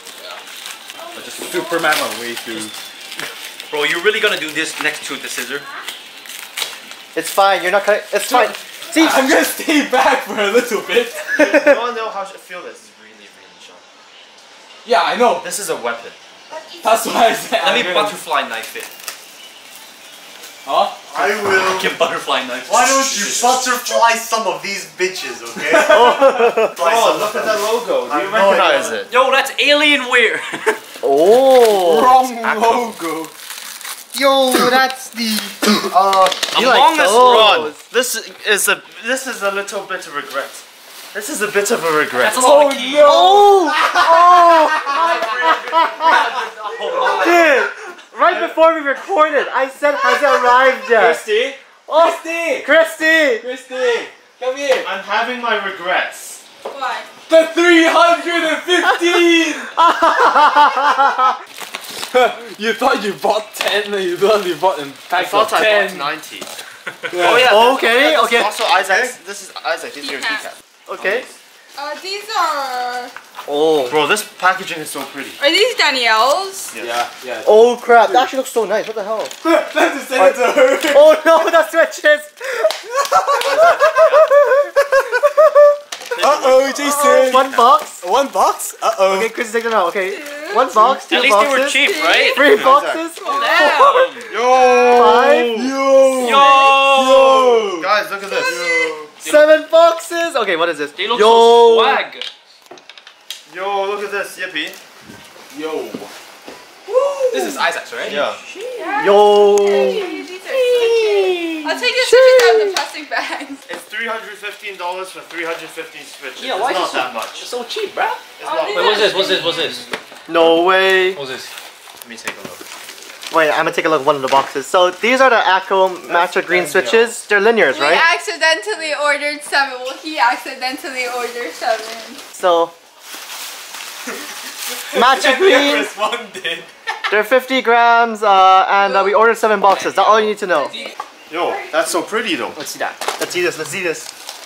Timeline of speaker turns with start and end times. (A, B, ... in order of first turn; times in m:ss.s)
0:01.2-0:01.9 A
0:01.4-0:02.7 B
0:03.7-0:05.7 A
0:07.1-0:09.3 C
0:08.2-0:11.5 B
0:11.3-0:13.8 D
0:11.4-0:11.8 C
0:14.8-0:15.5 B
0:15.2-0:16.2 D
0:16.5-0:17.3 E
0:16.8-0:18.2 B
0:17.6-0:18.9 A
0:20.6-0:21.6 B
0:21.1-0:21.9 F
0:21.1-0:23.7 A
0:22.7-0:26.0 F
0:24.4-0:24.7 C
0:25.8-0:26.8 C
0:26.7-0:29.1 D
0:26.8-0:27.1 A
0:28.1-0:28.9 C
0:28.9-0:30.8 A
0:31.0-0:32.2 C
0:31.6-0:33.3 B
0:32.3-0:33.0 D
0:34.1-0:37.8 C
0:36.5-0:37.6 A
0:36.6-0:42.6 D
0:42.2-0:43.4 A
0:42.3-0:45.0 B
0:43.0-0:46.3 C
0:44.9-0:47.6 A
0:47.0-0:47.3 D
0:47.1-0:51.2 C
0:48.3-0:48.5 D
0:51.9-0:53.5 C
0:51.9-0:52.7 B
0:53.4-0:54.9 B
0:54.8-0:56.4 D
0:56.7-0:57.1 E
0:57.3-0:59.7 B
0:59.8-1:01.3 C
1:02.1-1:06.1 B
1:05.1-1:06.5 D
1:07.1-1:07.8 B
1:07.1-1:11.4 D
1:07.4-1:09.1 C
1:10.0-1:10.5 E
1:10.9-1:11.3 C
1:11.8-1:13.1 E
1:13.5-1:14.0 C
1:13.9-1:15.4 D
1:15.4-1:16.7 E
1:16.7-1:17.1 D
1:16.8-1:18.3 B
1:17.4-1:19.3 C
1:19.4-1:21.6 B
1:20.2-1:22.7 C
1:23.0-1:24.0 B
1:23.5-1:24.2 A
1:23.5-1:25.6 C
1:26.0-1:27.6 D
1:26.1-1:29.3 B
1:26.8-1:28.0 C
1:29.0-1:33.9 C
1:30.1-1:30.7 E
1:31.1-1:34.4 A
1:31.8-1:32.5 E
1:32.5-1:33.0 D
1:33.2-1:34.0 E
1:34.3-1:35.7 D
1:34.7-1:35.7 C
1:35.6-1:37.9 B
1:36.2-1:37.4 A
1:36.3-1:36.8 E
1:37.6-1:39.1 D
1:38.2-1:38.7 E
1:38.4-1:39.0 B
1:39.2-1:42.0 C
1:41.0-1:42.3 A
1:43.5-1:44.8 D
1:45.5-1:46.1 B
1:46.9-1:48.2 B
1:47.6-1:48.9 A
1:48.1-1:48.4 D
1:48.8-1:53.7 E
1:49.0-1:50.1 C
1:50.5-1:50.9 B
1:50.8-1:52.8 C
1:53.7-1:57.4 D
1:56.4-1:59.9 A
1:58.4-1:59.7 D
1:58.4-1:59.5 E
2:00.3-2:01.2 C
2:01.1-2:01.5 A
2:02.0-2:02.6 D
2:03.3-2:08.1 C
2:06.1-2:06.9 D
2:07.7-2:12.2 E
2:12.3-2:12.7 C
2:14.7-2:16.7 B
2:14.9-2:15.9 C
2:17.1-2:20.8 C
2:18.8-2:19.2 E
2:21.3-2:22.6 D
2:21.4-2:21.8 E
2:22.6-2:23.0 A
2:23.1-2:24.1 C